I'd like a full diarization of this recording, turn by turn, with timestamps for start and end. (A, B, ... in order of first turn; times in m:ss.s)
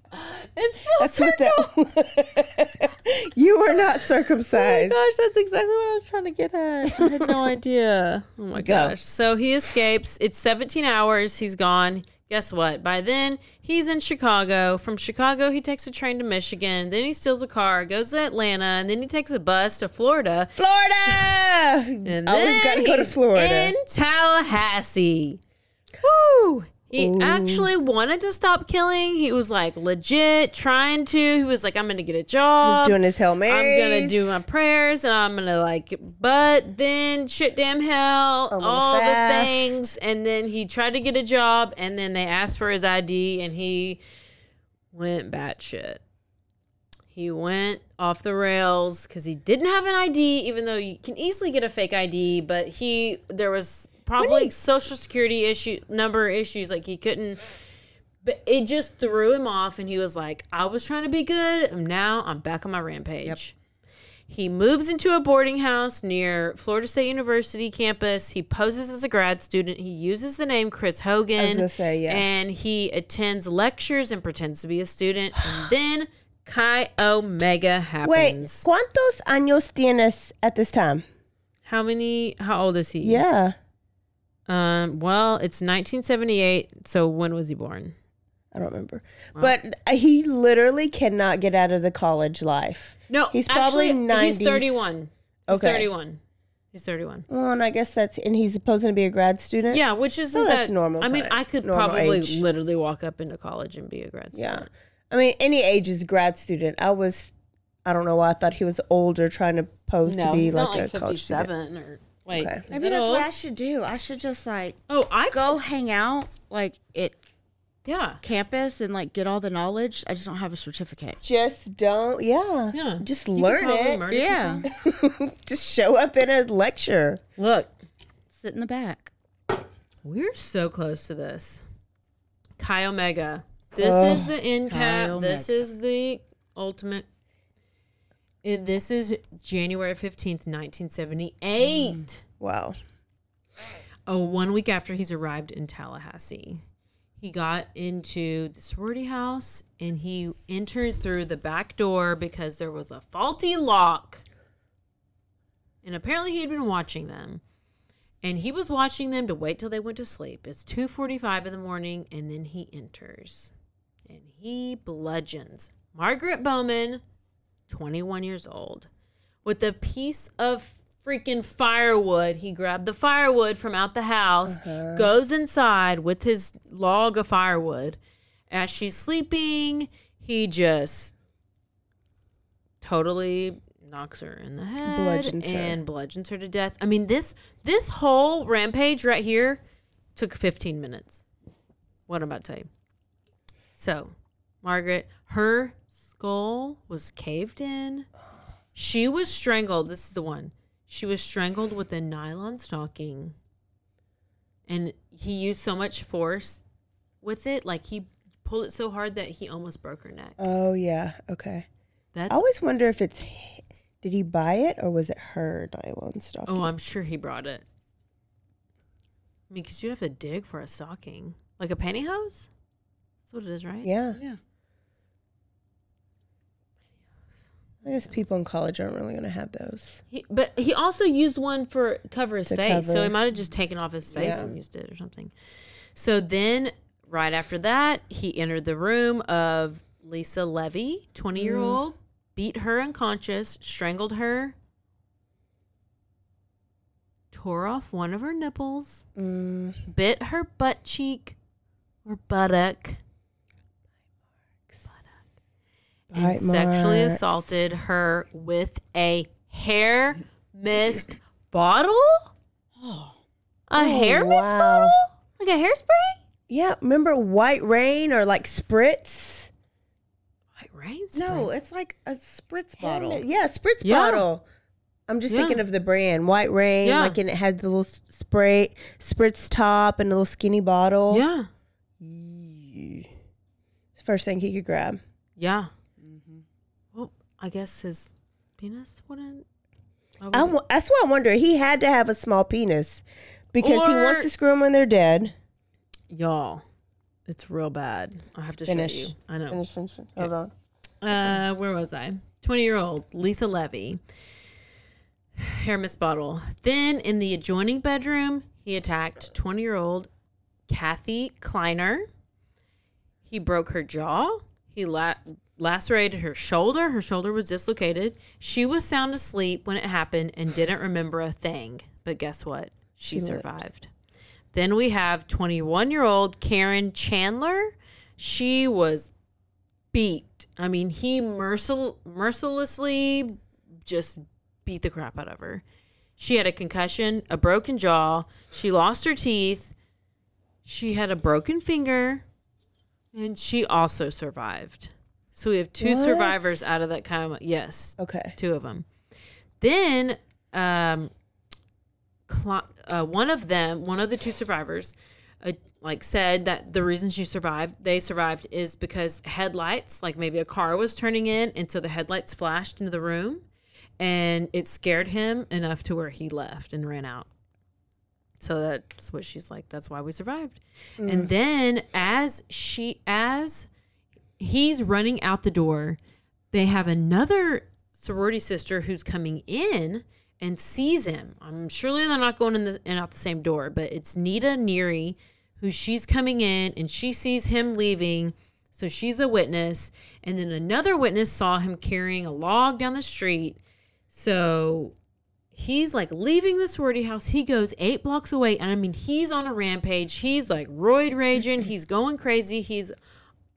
0:00.1-0:01.7 A
0:01.0-0:05.0 B
0:04.5-0:20.5 A
0:06.9-0:07.3 B
0:08.6-0:08.9 B
0:20.6-0:23.7 B
0:22.0-0:25.4 A
0:26.0-0:44.0 A
0:26.9-0:27.7 B
0:32.6-0:34.4 B
0:38.5-0:39.9 B
0:44.9-0:46.0 A
0:47.1-0:57.4 A
0:54.2-0:54.5 B
0:58.2-1:03.6 A
1:04.3-1:18.7 A
1:11.4-1:12.2 B
1:18.0-1:21.0 B
1:21.6-1:23.2 A
1:23.0-1:23.5 B
1:24.5-1:27.9 A
1:28.5-1:34.9 B
1:33.1-1:36.2 A
1:35.5-1:35.9 B
1:36.7-1:37.3 A
1:37.3-1:39.8 B
1:39.7-1:44.7 A
1:40.3-1:42.4 B
1:44.3-1:47.3 B
1:47.8-1:51.5 B
1:50.0-1:53.3 A
1:52.3-1:52.6 B
1:52.7-1:57.2 C
1:54.9-1:55.6 A
1:57.8-1:58.2 A
1:58.2-2:01.2 C
2:01.2-2:04.0 B
2:02.7-2:04.6 A
2:04.1-2:04.7 C
2:04.7-2:07.2 B
2:07.4-2:07.7 A
2:08.3-2:09.1 C
2:10.0-2:11.6 A
2:12.6-2:17.0 A
2:13.8-2:14.3 B
2:14.7-2:15.6 C
2:18.4-2:22.2 A
2:22.4-2:22.8 B
2:24.1-2:26.6 A
2:27.2-2:34.2 A
2:35.8-2:37.4 A
2:38.2-2:43.5 A
2:44.1-2:47.0 A
2:47.7-2:48.9 A
2:49.4-2:58.0 A
2:54.4-2:55.1 B
2:58.5-3:01.1 A
3:02.8-3:09.6 A
3:04.8-3:05.8 B
3:10.2-3:11.2 A
3:12.1-3:12.7 A
3:13.8-3:18.1 A
3:18.7-3:23.3 A
3:24.7-3:26.6 A
3:27.2-3:30.5 A
3:30.4-3:31.7 B
3:32.1-3:32.4 A
3:32.3-3:36.7 B
3:36.5-3:37.6 A
3:39.5-3:42.5 A
3:43.3-3:43.9 A
3:43.8-3:44.2 B
3:44.1-3:44.4 C
3:47.8-3:50.0 B
3:50.1-3:55.3 A
3:52.5-3:53.1 B
3:54.1-3:54.5 B
3:55.9-4:04.5 A
4:01.4-4:01.8 B
4:07.3-4:09.0 A
4:09.2-4:09.8 B
4:09.9-4:11.4 A
4:12.0-4:13.0 A
4:16.1-4:17.4 B
4:16.1-4:22.3 A
4:22.8-4:23.1 C
4:23.7-4:26.2 A
4:23.8-4:25.0 B
4:26.5-4:29.5 B
4:30.6-4:31.5 A
4:31.1-4:33.2 C
4:32.8-4:34.4 B
4:33.8-4:34.2 A
4:35.1-4:41.2 B
4:35.3-4:35.6 A
4:36.8-4:37.2 A
4:41.1-4:41.5 A
4:42.0-4:43.1 B
4:44.0-4:45.0 B
4:45.4-4:45.7 A
4:46.0-4:46.4 C
4:46.9-4:49.4 A
4:50.2-4:50.6 A
4:50.3-4:55.3 B
4:53.6-4:54.3 A
4:56.1-4:56.6 A
4:57.3-4:59.6 A
4:58.7-5:00.5 B
5:01.0-5:04.0 A
5:05.4-5:10.1 A
5:10.7-5:12.1 A
5:13.3-5:23.9 A
5:23.1-5:23.4 B
5:24.5-5:29.1 A
5:29.9-5:35.6 A
5:36.2-5:39.7 A
5:40.6-5:42.2 A
5:43.1-5:48.8 A
5:45.8-5:46.7 B
5:48.0-5:48.3 B
5:49.6-5:51.1 A
5:52.3-6:03.4 A
6:04.0-6:07.3 A
6:08.4-6:13.7 A
6:11.0-6:11.3 B
6:14.4-6:16.0 A
6:16.5-6:33.6 A
6:34.1-6:34.9 A
6:35.5-6:42.9 A